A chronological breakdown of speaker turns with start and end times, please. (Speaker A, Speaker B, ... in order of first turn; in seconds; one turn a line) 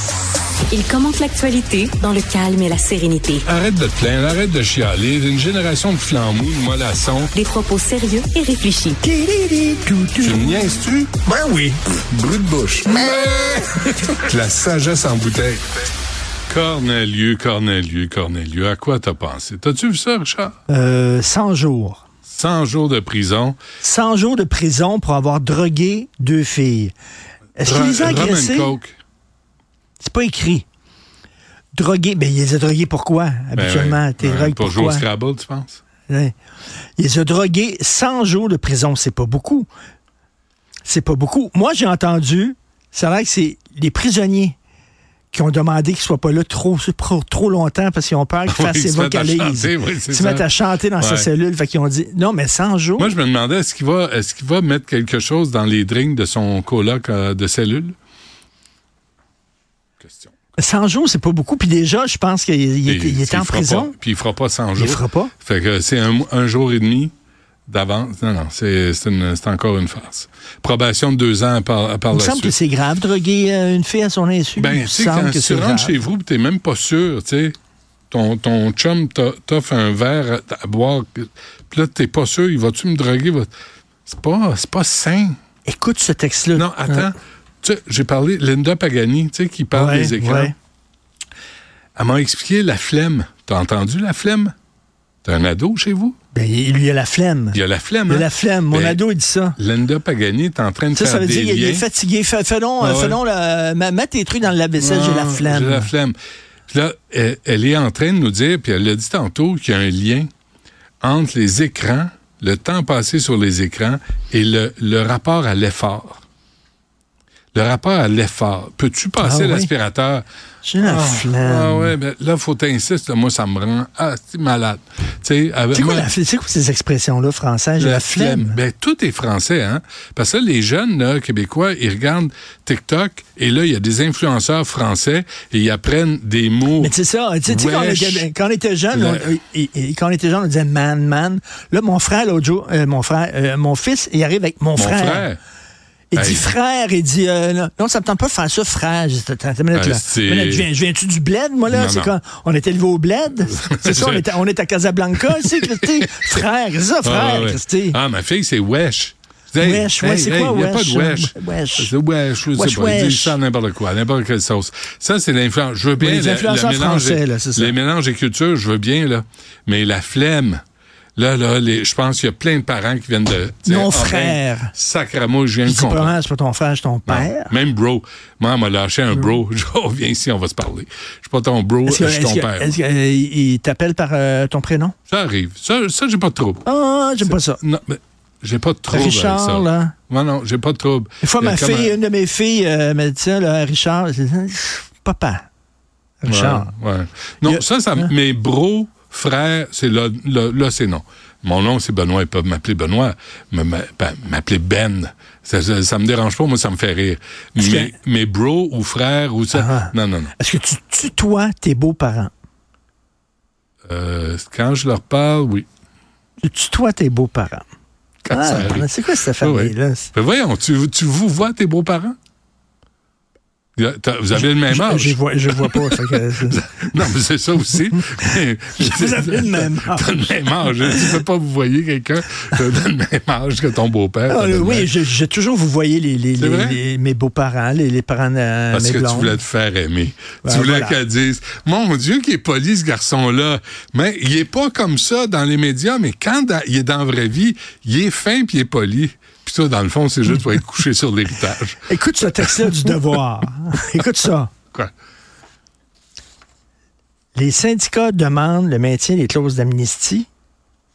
Speaker A: 0.7-3.5
Speaker B: 3.4-7.3
Speaker A: 7.3-9.0
Speaker C: 9.0-10.6
Speaker B: 10.2-11.1
Speaker C: 11.2-11.8
Speaker B: 12.1-15.6
Speaker B: 16.5-20.6
Speaker C: 20.7-22.1
Speaker B: 22.3-23.6
Speaker C: 23.8-26.9
Speaker C: 27.6-28.8
Speaker B: 27.6-29.0
Speaker C: 30.0-30.7
Speaker C: 31.7-35.1
Speaker B: 33.6-35.8
Speaker C: 36.1-36.4
Speaker C: 37.0-39.7
Speaker C: 40.9-44.6
Speaker C: 45.3-53.1
Speaker B: 48.5-50.5
Speaker B: 51.0-51.3
Speaker B: 53.0-58.0
Speaker B: 60.0-60.3
Speaker C: 60.6-63.9
Speaker B: 62.9-67.1
Speaker C: 64.8-65.3
Speaker B: 67.7-72.5
Speaker C: 72.1-76.0
Speaker B: 74.6-77.5
Speaker B: 78.1-83.5
Speaker B: 84.1-85.4
Speaker C: 85.7-87.1
Speaker B: 86.5-90.5
Speaker C: 89.7-90.5
Speaker B: 92.0-94.5
Speaker B: 95.2-96.2
Speaker C: 96.3-99.6
Speaker B: 97.5-99.0
Speaker B: 99.6-101.9
Speaker C: 100.9-105.9
Speaker B: 102.8-103.2
Speaker B: 104.8-106.2
Speaker B: 106.7-110.3
Speaker B: 111.0-116.2
Speaker B: 117.5-120.3
Speaker C: 119.2-119.7
Speaker C: 120.6-122.0
Speaker B: 120.8-126.1
Speaker C: 125.7-128.6
Speaker B: 127.8-136.9
Speaker C: 136.8-145.3
Speaker B: 137.5-138.3
Speaker B: 138.9-139.3
Speaker B: 144.8-145.4
Speaker C: 146.1-158.0
Speaker B: 146.2-146.5
Speaker B: 149.7-150.7
Speaker B: 151.7-152.1
Speaker B: 153.5-154.3
Speaker B: 155.2-156.2
Speaker B: 157.0-170.6
Speaker C: 159.6-161.9
Speaker C: 162.5-163.4
Speaker C: 166.0-167.8
Speaker B: 171.2-176.1
Speaker C: 173.7-174.7
Speaker C: 175.7-177.6
Speaker B: 177.1-182.7
Speaker C: 181.8-184.9
Speaker B: 185.1-186.7
Speaker C: 186.7-187.6
Speaker B: 187.2-192.0
Speaker C: 188.9-189.9
Speaker C: 191.2-195.5
Speaker C: 196.2-196.7
Speaker B: 196.3-210.3
Speaker C: 197.4-198.1
Speaker C: 207.6-207.9
Speaker C: 209.5-212.3
Speaker B: 213.9-215.7
Speaker C: 216.4-217.7
Speaker B: 218.2-218.9
Speaker C: 218.3-220.1
Speaker B: 219.4-222.2
Speaker B: 223.8-234.9
Speaker C: 224.3-226.7
Speaker C: 228.8-231.2
Speaker C: 234.3-239.4
Speaker B: 236.4-236.8
Speaker B: 238.7-251.8
Speaker C: 240.4-241.0
Speaker C: 251.9-254.5
Speaker B: 252.4-253.0
Speaker C: 257.4-260.3